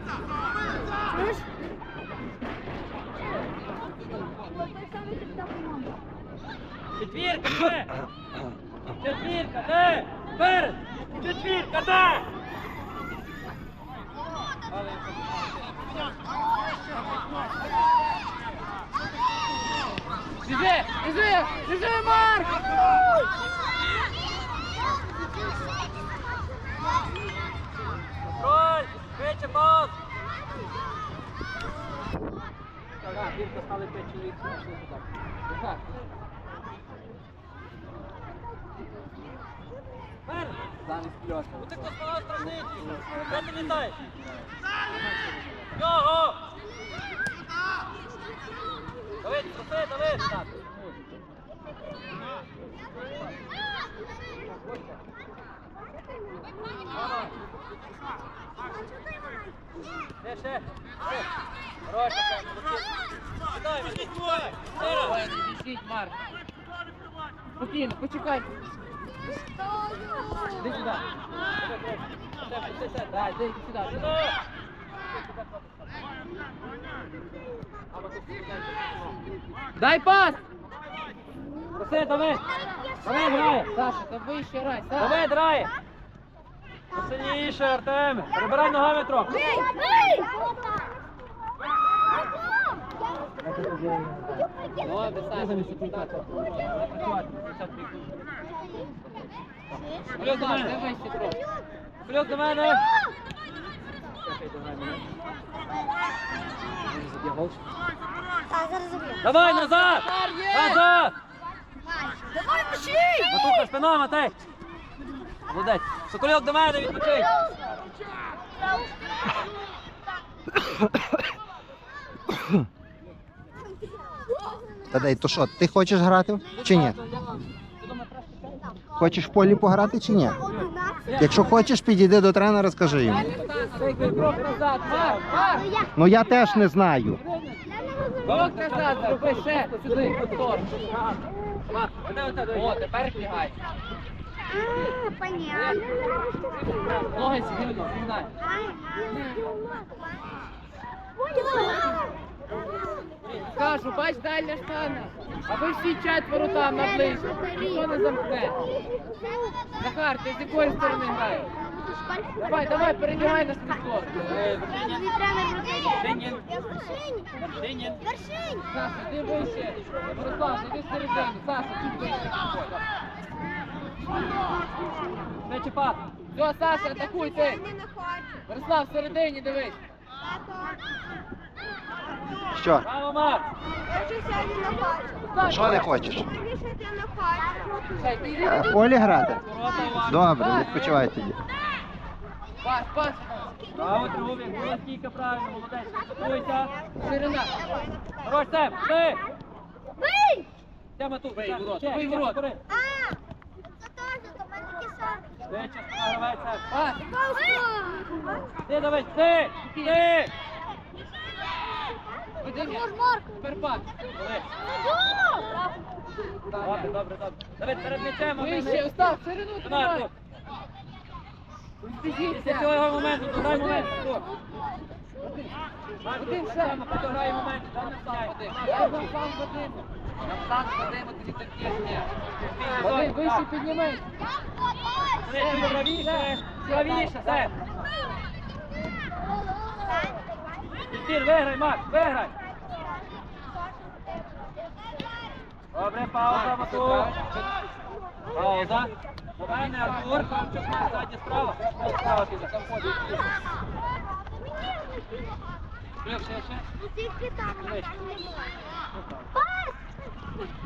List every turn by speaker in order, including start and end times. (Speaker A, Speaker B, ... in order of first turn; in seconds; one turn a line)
Speaker A: 5.0-5.8
Speaker B: 7.0-8.0
Speaker B: 9.0-12.3
Speaker C: 20.4-22.6
Speaker B: 28.2-29.9
Speaker B: 33.0-35.0
Speaker C: 35.5-35.8
Speaker B: 40.3-40.7
Speaker C: 40.8-41.9
Speaker B: 41.6-44.0
Speaker C: 42.9-43.3
Speaker C: 45.3-45.5
Speaker B: 45.8-46.4
Speaker B: 49.2-50.7
Speaker B: 54.7-55.0
Speaker B: 57.0-57.3
Speaker B: 60.2-61.2
Speaker B: 61.9-62.9
Speaker B: 63.5-65.1
Speaker C: 64.8-66.1
Speaker C: 67.6-68.5
Speaker B: 70.5-73.3
Speaker C: 73.1-74.2
Speaker B: 73.9-74.3
Speaker B: 77.9-79.2
Speaker C: 79.8-80.4
Speaker B: 81.7-82.4
Speaker B: 83.0-83.7
Speaker C: 83.7-85.2
Speaker B: 85.0-85.7
Speaker B: 86.9-89.4
Speaker A: 89.4-90.9
Speaker B: 93.4-94.5
Speaker C: 94.8-96.1
Speaker B: 95.3-98.1
Speaker B: 100.0-100.8
Speaker C: 100.2-101.4
Speaker B: 102.0-102.8
Speaker B: 104.2-105.0
Speaker B: 106.8-107.6
Speaker A: 108.6-109.1
Speaker B: 109.2-111.1
Speaker C: 109.8-110.8
Speaker A: 112.7-113.1
Speaker B: 113.3-114.3
Speaker B: 115.5-117.3
Speaker D: 124.9-127.0
Speaker B: 126.5-128.8
Speaker D: 129.0-130.4
Speaker B: 130.5-131.5
Speaker D: 131.2-133.3
Speaker C: 133.0-135.7
Speaker B: 133.3-135.7
Speaker D: 135.9-137.2
Speaker B: 138.2-142.9
Speaker C: 138.2-140.7
Speaker C: 142.5-143.6
Speaker A: 144.8-145.6
Speaker B: 145.5-148.2
Speaker C: 147.1-148.3
Speaker A: 148.6-149.7
Speaker A: 151.2-152.1
Speaker C: 153.5-158.6
Speaker C: 159.8-161.5
Speaker A: 161.6-162.5
Speaker C: 162.4-164.4
Speaker B: 164.2-165.1
Speaker A: 165.2-165.9
Speaker B: 165.9-166.5
Speaker B: 167.4-168.0
Speaker C: 168.7-172.8
Speaker B: 175.4-176.0
Speaker C: 176.3-177.6
Speaker C: 178.5-179.8
Speaker D: 182.5-182.9
Speaker B: 182.8-183.4
Speaker A: 183.9-185.1
Speaker C: 185.3-186.0
Speaker D: 185.4-186.3
Speaker A: 186.5-187.9
Speaker C: 187.9-188.8
Speaker D: 188.4-189.4
Speaker B: 189.4-191.0
Speaker D: 189.9-191.4
Speaker C: 192.6-193.5
Speaker B: 193.7-196.7
Speaker C: 197.0-197.5
Speaker B: 198.2-199.2
Speaker B: 201.0-202.6
Speaker C: 201.3-202.4
Speaker A: 204.2-205.2
Speaker B: 205.5-206.7
Speaker C: 206.7-207.1
Speaker A: 207.1-208.4
Speaker B: 208.7-210.3
Speaker C: 209.7-210.0
Speaker C: 212.4-213.9
Speaker A: 212.9-213.3
Speaker B: 214.2-214.4
Speaker C: 216.3-216.9
Speaker B: 216.6-219.0
Speaker C: 218.3-220.1
Speaker B: 219.6-220.1
Speaker C: 221.8-222.7
Speaker B: 222.0-224.3
Speaker B: 226.0-229.1
Speaker C: 226.1-226.8
Speaker C: 227.9-232.1
Speaker B: 232.4-233.4
Speaker C: 232.7-234.0
Speaker B: 235.2-237.5
Speaker C: 235.3-237.5
Speaker B: 240.9-242.3
Speaker B: 245.7-247.1
Speaker C: 246.3-247.4
Speaker B: 248.3-252.6
Speaker C: 249.7-250.3
Speaker C: 251.8-253.2
Speaker B: 256.0-256.6
Speaker A: 256.9-258.4
Speaker B: 257.5-258.0